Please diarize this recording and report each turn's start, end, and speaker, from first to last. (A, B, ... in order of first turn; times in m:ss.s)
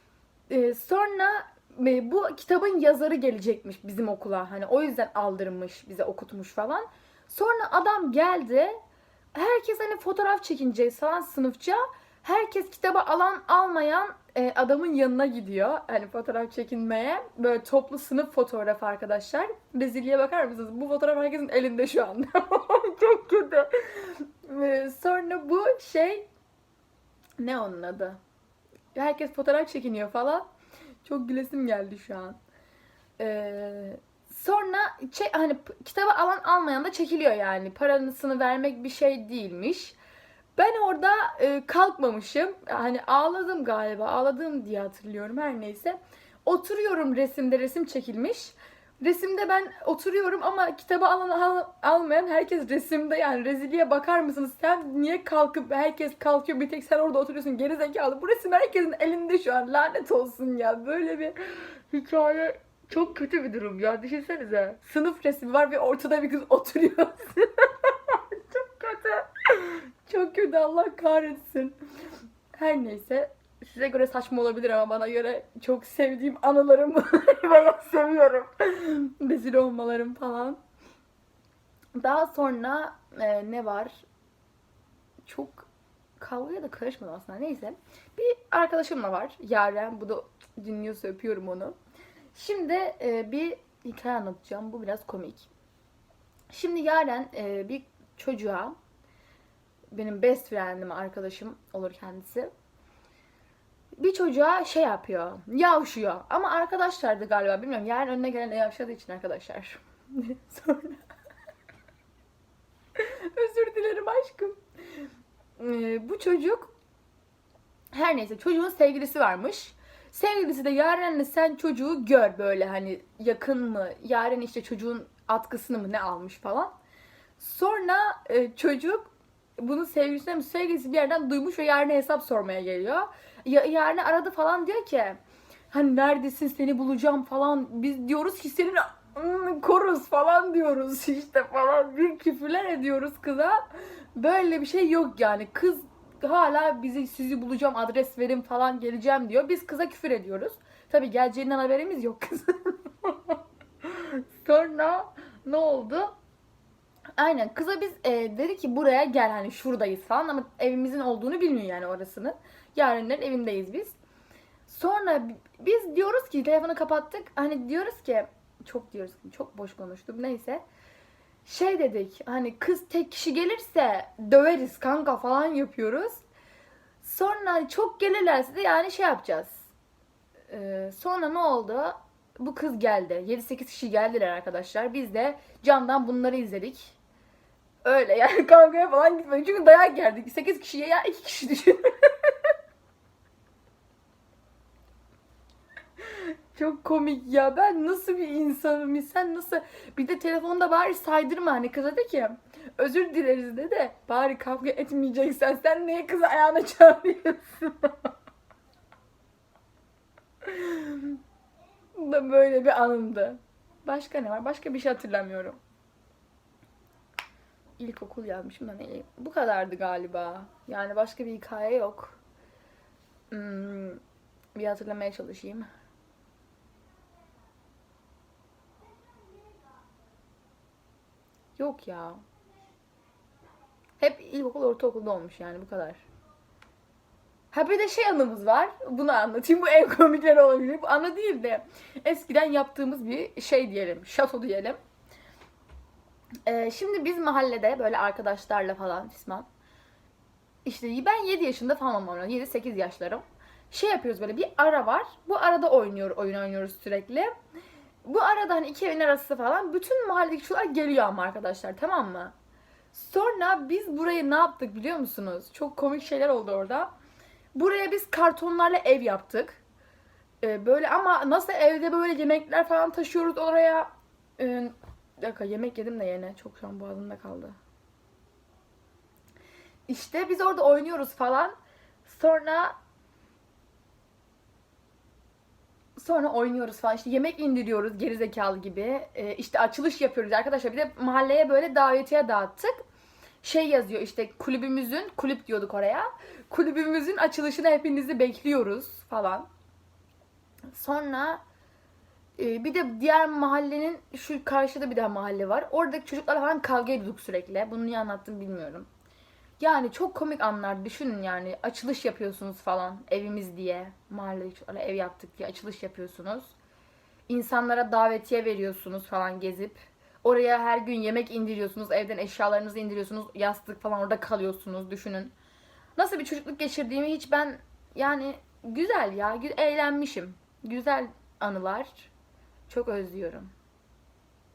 0:00.5-0:08.8 A
0:09.3-0:26.3 A
0:27.4-0:28.2 A
0:28.9-0:30.4 A
0:31.0-0:32.4 A
0:33.2-0:40.0 A
0:40.5-1:11.8 A
1:12.5-1:20.6 A
1:22.0-1:24.0 A
1:25.2-1:25.7 A
1:26.2-1:31.8 A
1:32.3-1:35.5 A
1:36.5-1:38.8 A
1:39.9-1:42.5 A
1:44.0-1:51.0 A
1:53.0-1:55.1 A
1:55.6-1:56.7 A
1:57.9-2:06.7 A
2:07.4-2:15.2 A
2:15.7-2:36.1 A
2:37.2-2:44.0 A
2:44.7-2:50.6 A
2:51.4-2:56.2 A
2:57.0-2:59.7 A
3:00.5-3:07.0 A
3:07.8-3:12.5 A
3:16.0-3:28.1 A
3:30.4-3:31.2 A
3:31.9-3:35.6 A
3:37.8-3:42.2 A
3:43.3-3:44.0 A
3:44.5-3:45.7 A
3:51.6-3:52.2 A
3:54.0-3:56.0 A
3:57.5-4:04.8 A
4:06.4-4:09.5 A
4:10.6-4:17.3 A
4:18.0-4:22.3 A
4:22.9-4:26.9 A
4:27.5-4:29.6 A
4:30.4-4:37.6 A
4:39.9-4:42.8 A
4:46.0-4:52.8 A
4:53.4-4:59.5 A
5:00.7-5:01.4 A
5:02.4-5:08.9 A
5:09.6-5:16.5 A
5:17.3-5:25.3 A
5:26.0-5:32.1 A
5:32.7-5:33.5 A